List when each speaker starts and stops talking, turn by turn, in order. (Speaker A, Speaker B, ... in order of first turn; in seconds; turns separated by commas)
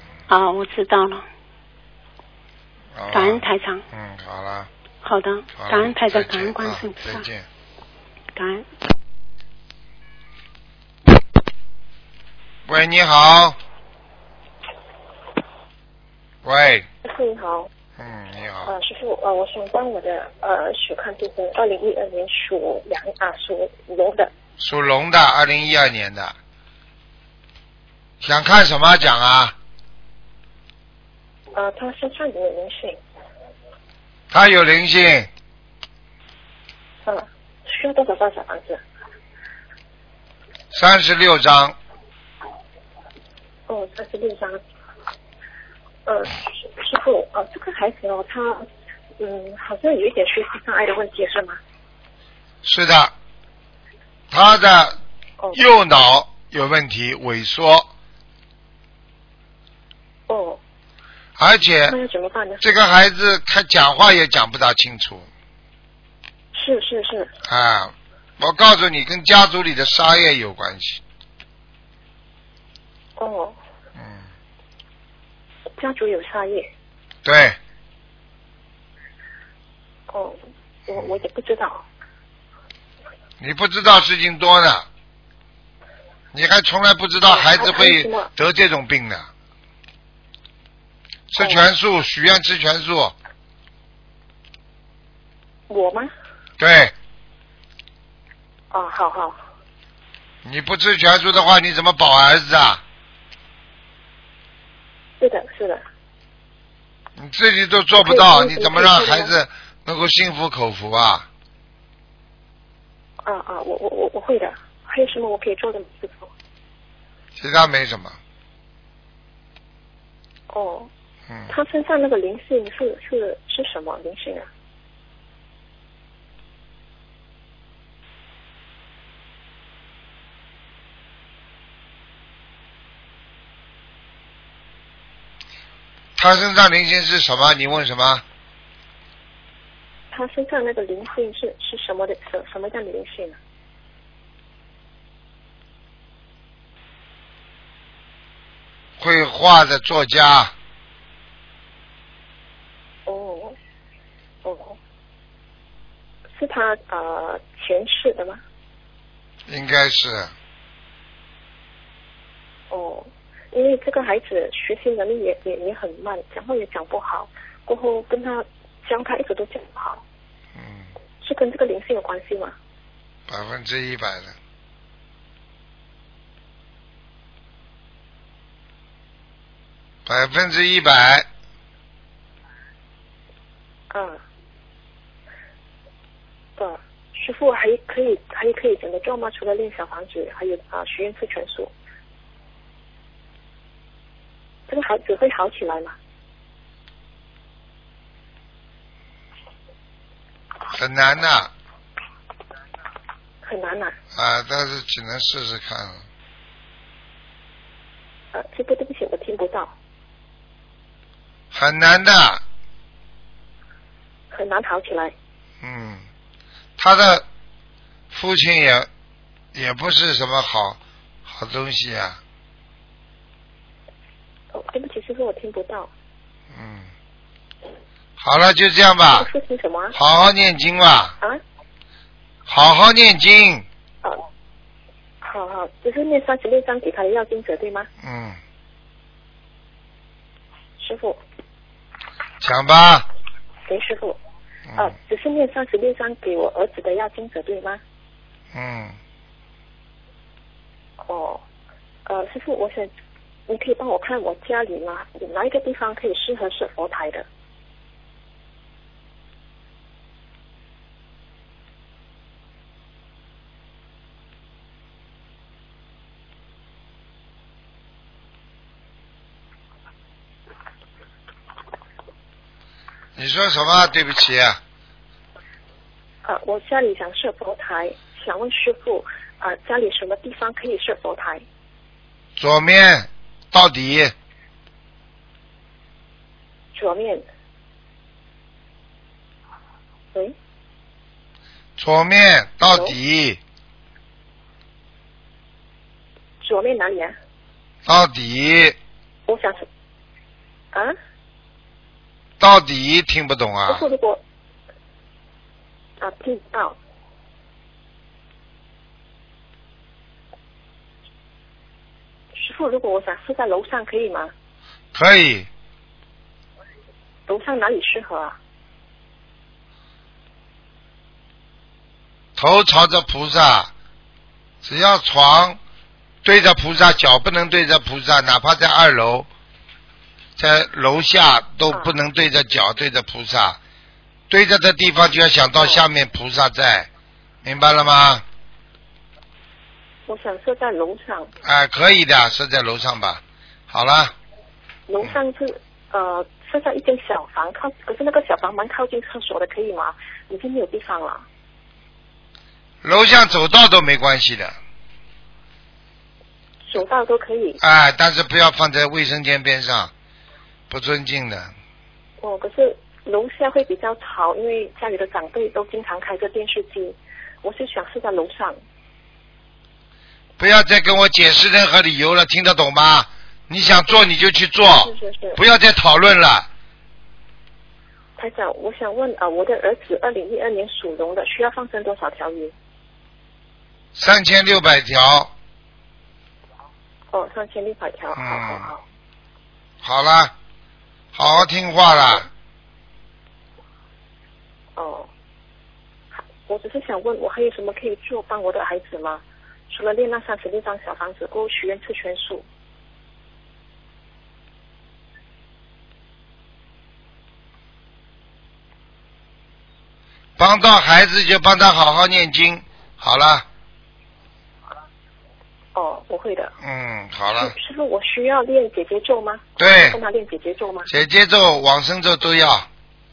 Speaker A: 0.3-1.2, Speaker B: 3.0-4.7, Speaker A: 3.1-3.8, Speaker A: 5.0-7.2, Speaker B: 5.6-7.5, Speaker A: 8.3-8.7, Speaker B: 12.7-13.6, Speaker B: 16.4-16.9, Speaker C: 17.0-17.7, Speaker B: 18.0-18.7, Speaker C: 18.6-24.3, Speaker B: 24.6-26.4, Speaker B: 28.2-29.6, Speaker C: 31.5-33.0, Speaker B: 34.3-35.3, Speaker C: 37.0-38.8, Speaker B: 40.7-41.8, Speaker C: 43.7-44.6, Speaker C: 46.1-48.7, Speaker C: 49.2-51.6, Speaker B: 52.6-53.1, Speaker B: 54.3-55.0, Speaker B: 55.5-57.9, Speaker C: 60.3-60.6, Speaker B: 61.4-62.0, Speaker C: 61.9-62.6, Speaker B: 62.6-65.3, Speaker C: 66.5-67.3, Speaker B: 67.5-71.0, Speaker C: 73.2-73.6, Speaker B: 74.0-74.3, Speaker C: 75.8-76.7, Speaker B: 77.2-77.6, Speaker C: 80.1-81.8, Speaker B: 83.4-84.9, Speaker B: 86.3-89.3, Speaker C: 87.3-88.3, Speaker B: 91.3-93.2, Speaker C: 91.4-91.7, Speaker C: 95.7-96.1, Speaker B: 96.6-96.9, Speaker C: 98.7-99.4, Speaker B: 100.4-102.8, Speaker C: 105.2-105.8, Speaker B: 107.2-111.3, Speaker C: 108.0-109.3, Speaker C: 113.2-116.3, Speaker B: 117.4-118.2, Speaker C: 120.5-120.9, Speaker B: 121.3-121.5, Speaker C: 121.5-124.5, Speaker B: 136.2-138.2, Speaker C: 140.1-143.4, Speaker B: 149.0-150.5, Speaker C: 153.1-153.6, Speaker C: 154.4-154.8, Speaker C: 156.4-158.4, Speaker B: 159.5-160.3, Speaker C: 162.7-170.0, Speaker B: 170.6-170.9, Speaker C: 171.2-172.6, Speaker B: 173.3-174.4, Speaker B: 180.1-181.3, Speaker C: 183.9-184.2, Speaker C: 186.6-191.7, Speaker C: 194.7-195.9, Speaker B: 200.7-201.5, Speaker C: 203.4-203.9, Speaker B: 204.1-206.1, Speaker C: 208.3-209.7, Speaker B: 211.5-212.4, Speaker C: 214.3-215.2, Speaker B: 215.6-216.1, Speaker B: 216.8-217.2, Speaker B: 218.1-218.9, Speaker B: 219.5-222.2, Speaker C: 224.5-225.9, Speaker B: 226.5-226.9, Speaker B: 228.2-229.3, Speaker C: 229.2-229.9, Speaker B: 229.9-231.2, Speaker B: 232.5-233.7, Speaker C: 235.2-237.9, Speaker B: 238.0-238.4, Speaker C: 240.8-241.2, Speaker B: 242.4-243.1, Speaker C: 243.7-244.2, Speaker C: 244.8-247.8, Speaker B: 248.5-249.0, Speaker C: 251.0-251.4, Speaker C: 252.1-252.9, Speaker C: 253.5-257.3, Speaker B: 273.2-274.6, Speaker C: 276.2-281.4, Speaker B: 282.4-284.1, Speaker C: 286.7-287.2, Speaker B: 291.8-293.4, Speaker C: 292.7-292.9, Speaker C: 296.4-297.2, Speaker B: 297.9-298.8, Speaker C: 299.3-299.7, Speaker B: 302.4-303.9, Speaker C: 303.7-304.2, Speaker C: 306.0-306.8, Speaker C: 312.3-314.3, Speaker B: 314.9-315.5, Speaker C: 317.3-318.4, Speaker B: 322.4-323.7, Speaker B: 324.6-325.6, Speaker B: 326.2-329.3, Speaker B: 330.4-333.6, Speaker B: 334.3-336.9, Speaker B: 337.4-338.2, Speaker C: 340.1-341.3, Speaker B: 341.4-344.1, Speaker C: 344.9-351.2, Speaker B: 352.8-354.6, Speaker C: 356.7-357.6, Speaker B: 357.6-359.9, Speaker B: 360.7-361.5, Speaker C: 362.2-368.6, Speaker B: 370.4-376.5, Speaker C: 374.8-375.4, Speaker C: 378.2-382.6, Speaker B: 383.9-385.3, Speaker C: 387.1-388.8, Speaker B: 388.1-388.7, Speaker B: 389.8-390.3, Speaker B: 391.1-392.3, Speaker C: 394.8-395.1, Speaker C: 396.2-402.5, Speaker B: 410.4-413.5, Speaker C: 415.8-416.6, Speaker B: 416.6-417.5, Speaker C: 417.4-420.9, Speaker B: 419.6-420.0, Speaker B: 420.9-422.7